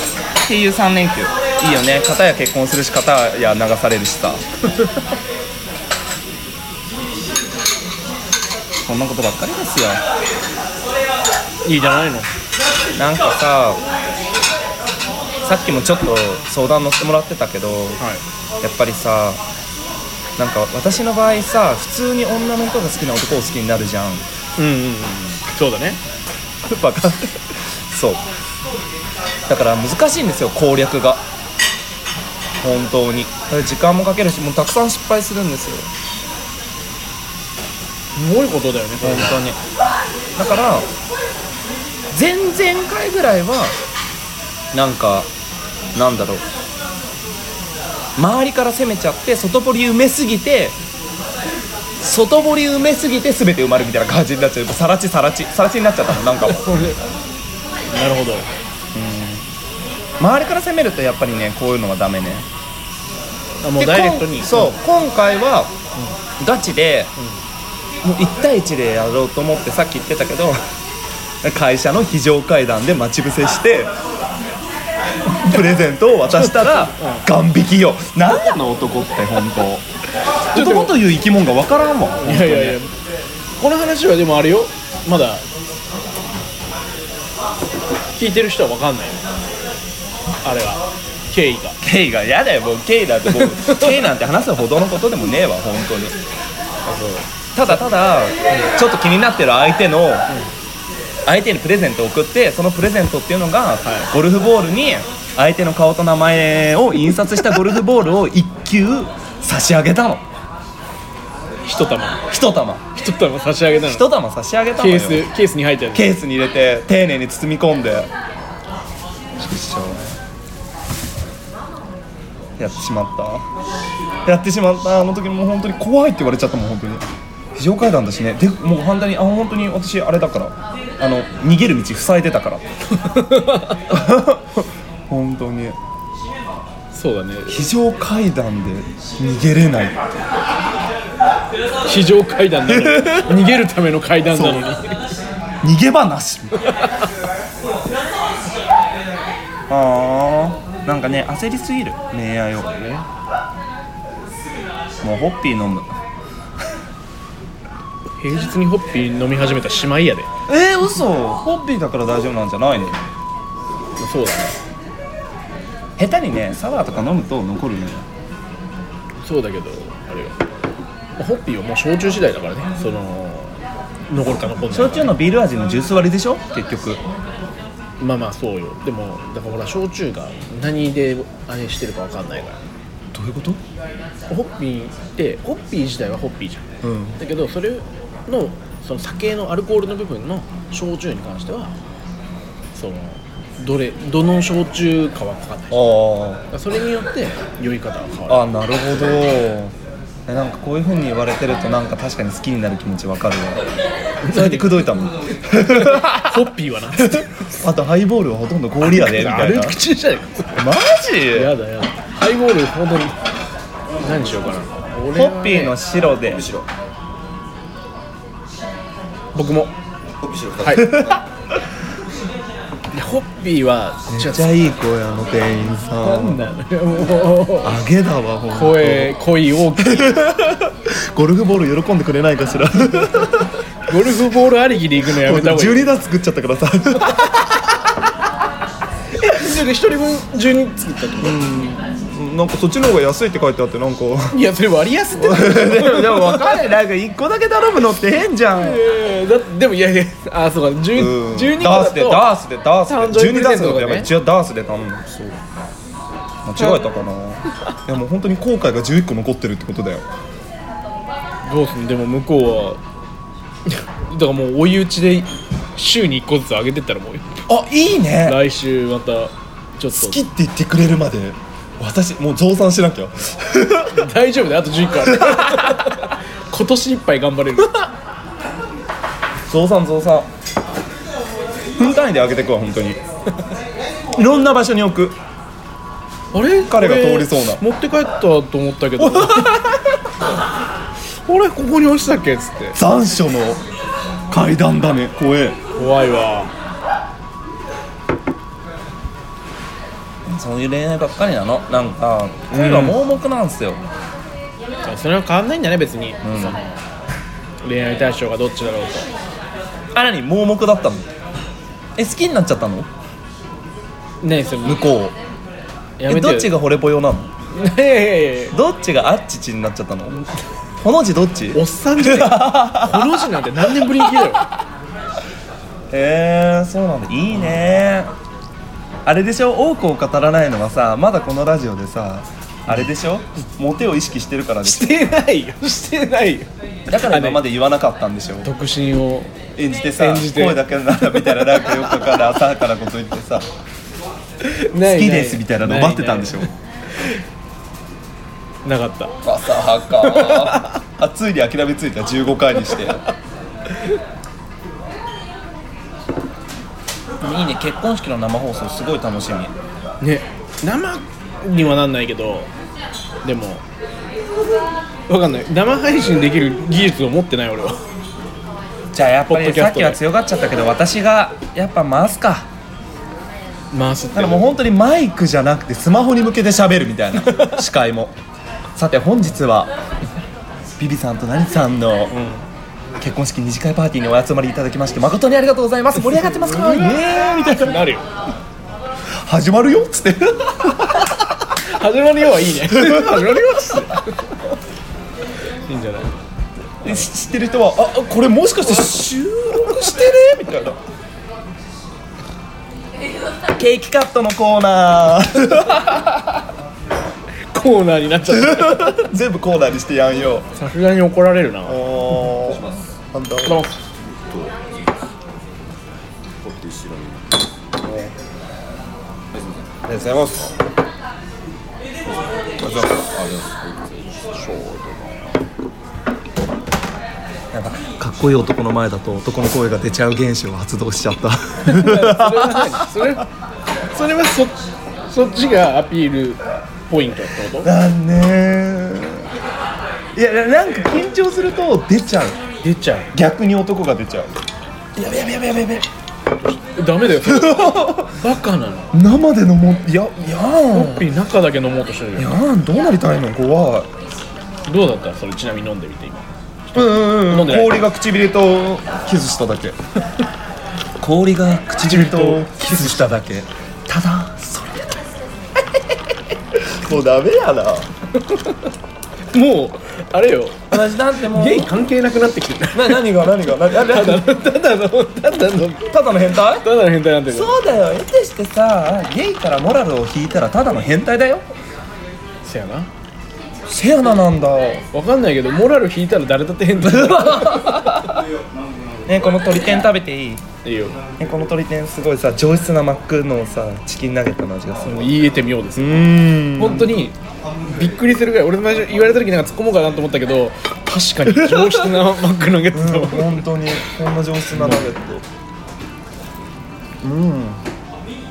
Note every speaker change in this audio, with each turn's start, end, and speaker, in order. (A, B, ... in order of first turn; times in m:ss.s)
0:00.4-0:04.4 A
0:08.8-0:10.0 A
0:11.6-0:12.3 B
0:13.0-0:13.8 A
0:15.4-0:18.0 A
0:18.6-0:19.4 A
0:20.4-0:24.2 A
0:24.6-0:26.0 B
0:26.6-0:28.2 A
0:29.5-0:31.2 A
0:32.6-0:35.9 A
0:38.2-0:39.6 B
0:39.0-0:39.4 A
0:40.4-0:40.9 A
0:42.1-0:43.7 A
0:44.7-0:45.3 A
0:45.9-0:46.4 A
0:48.2-0:50.8 A
0:52.0-0:56.9 A
0:56.4-0:57.0 B
0:57.9-0:58.5 B
0:58.9-0:59.4 A
1:00.2-1:02.5 A
1:03.6-1:04.8 B
1:03.8-1:05.7 A
1:06.4-1:07.1 A
1:08.0-1:10.6 A
1:11.4-1:13.9 A
1:15.3-1:19.8 A
1:16.7-1:17.2 B
1:20.5-1:21.0 B
1:20.5-1:22.8 A
1:22.2-1:22.9 B
1:23.6-1:25.4 B
1:28.2-1:29.2 B
1:30.4-1:31.8 B
1:31.8-1:36.2 A
1:33.6-1:33.9 B
1:36.8-1:37.8 B
1:37.6-1:40.3 A
1:41.2-1:50.2 A
1:43.8-1:44.1 B
1:51.6-1:52.3 B
1:52.3-1:52.8 A
1:52.9-1:54.1 B
1:53.8-1:55.3 A
1:54.8-1:56.1 B
1:55.9-1:58.1 A
1:59.4-2:00.1 A
2:02.6-2:03.4 A
2:04.2-2:12.6 A
2:12.9-2:13.8 B
2:13.9-2:15.8 A
2:16.9-2:17.6 B
2:17.5-2:20.0 A
2:21.8-2:25.0 B
2:22.7-2:23.3 A
2:24.3-2:24.7 A
2:25.6-2:26.6 A
2:29.7-2:33.0 A
2:35.0-2:35.9 A
2:38.2-2:40.3 B
2:40.5-2:43.0 A
2:44.0-2:44.6 B
2:46.0-2:48.0 A
2:49.2-2:50.4 B
2:51.2-2:55.2 B
2:54.7-2:57.0 A
2:58.0-3:02.6 B
3:03.1-3:03.6 A
3:04.3-3:06.7 B
3:06.8-3:07.2 A
3:07.2-3:11.7 B
3:12.8-3:15.8 B
3:15.7-3:16.4 A
3:16.5-3:18.4 B
3:18.3-3:19.7 A
3:20.3-3:23.6 A
3:24.2-3:24.8 B
3:24.3-3:29.8 A
3:25.7-3:27.4 B
3:28.8-3:30.6 B
3:30.6-3:31.5 A
3:31.3-3:33.2 B
3:34.0-3:35.8 B
3:35.1-3:36.5 A
3:36.2-3:36.6 C
3:39.3-3:39.7 B
3:40.2-3:40.9 C
3:40.6-3:41.0 B
3:40.7-3:41.2 A
3:42.9-3:44.7 B
3:44.1-3:46.5 A
3:46.0-3:47.8 B
3:47.6-3:49.2 A
3:48.5-3:50.2 B
3:49.8-3:53.5 A
3:53.9-3:55.9 B
3:55.2-3:57.7 A
3:59.1-4:01.4 B
4:01.2-4:04.4 A
4:04.3-4:06.7 B
4:05.1-4:08.8 A
4:08.5-4:12.3 B
4:10.9-4:15.4 A
4:12.9-4:14.1 B
4:16.4-4:20.0 A
4:16.6-4:16.8 B
4:21.4-4:22.8 B
4:23.6-4:27.4 B
4:27.5-4:28.4 A
4:28.2-4:30.2 B
4:29.9-4:34.1 A
4:33.9-4:37.9 B
4:35.0-4:36.0 A
4:39.5-4:40.3 A
4:41.8-4:43.0 A
4:44.1-4:45.2 A
4:46.3-4:49.8 B
4:46.6-4:47.6 A
4:49.0-4:49.6 A
4:51.3-4:52.8 B
4:52.7-4:53.6 A
4:54.3-4:55.6 A
4:55.8-4:56.5 B
5:00.2-5:03.8 A
5:02.5-5:03.0 B
5:04.8-5:06.8 B
5:06.2-5:06.6 A
5:07.6-5:09.1 B
5:09.9-5:11.1 A
5:12.0-5:12.9 A
5:14.2-5:14.8 B
5:14.6-5:15.1 A
5:16.0-5:16.5 B
5:16.1-5:17.3 A
5:17.5-5:18.5 B
5:18.5-5:20.3 A
5:20.8-5:24.0 A
5:21.5-5:24.5 B
5:25.9-5:28.1 A
5:29.0-5:35.0 A
5:34.6-5:37.4 B
5:36.9-5:38.5 A
5:38.4-5:39.4 B
5:39.6-5:43.4 A
5:40.0-5:42.0 B
5:44.4-5:47.2 B
5:44.8-5:46.5 A
5:48.6-5:49.1 B
5:49.2-5:53.0 A
5:49.9-5:50.8 B
5:57.2-5:59.5 A
6:00.0-6:02.5 B
6:03.2-6:03.6 B
6:05.1-6:07.8 B
6:08.9-6:12.5 A
6:09.3-6:10.0 B
6:13.7-6:14.5 B
6:14.1-6:18.1 A
6:17.2-6:17.6 B
6:18.8-6:19.7 A
6:20.8-6:22.2 A
6:22.1-6:22.4 B
6:23.0-6:27.8 A
6:26.1-6:28.0 B
6:29.1-6:31.3 A
6:31.6-6:34.2 B
6:32.7-6:34.0 A
6:35.7-6:36.1 B
6:36.8-6:40.8 A
6:43.5-6:46.4 A
6:47.5-6:49.1 B
6:48.3-6:50.5 A
6:50.5-6:51.9 B
6:51.6-6:53.6 A
6:52.4-6:52.8 C
6:53.4-6:53.7 B
6:54.0-6:54.9 C
6:56.4-6:57.4 C
6:59.3-6:59.8 C
6:59.8-7:00.5 A
7:02.1-7:04.9 C
7:02.6-7:03.1 A
7:07.5-7:13.0 A
7:11.6-7:13.3 B
7:13.9-7:17.7 B
7:17.6-7:19.3 A
7:20.1-7:22.4 A
7:22.6-7:23.1 B
7:23.1-7:24.3 A
7:25.0-7:25.9 A
7:26.3-7:28.9 B
7:27.1-7:28.1 A
7:28.9-7:31.1 A
7:30.7-7:32.3 B
7:32.2-7:33.9 A
7:34.7-7:37.8 B
7:36.7-7:39.8 A
7:41.0-7:45.0 A
7:41.8-7:43.1 B
7:46.5-7:47.9 A
7:48.2-7:48.7 B
7:49.3-7:55.9 B
7:50.7-7:51.7 A
7:52.7-7:54.2 A
7:55.9-7:56.7 A
7:56.5-7:57.6 B
7:57.3-8:01.4 A
8:02.4-8:02.9 B
8:03.7-8:04.8 A
8:04.9-8:08.0 B
8:06.8-8:08.2 A
8:09.1-8:10.4 A
8:10.6-8:11.0 B
8:11.2-8:15.1 A
8:14.8-8:17.2 B
8:15.8-8:16.9 A
8:17.7-8:23.4 B
8:21.3-8:21.9 A
8:22.7-8:25.2 A
8:24.5-8:24.9 B
8:27.0-8:27.6 A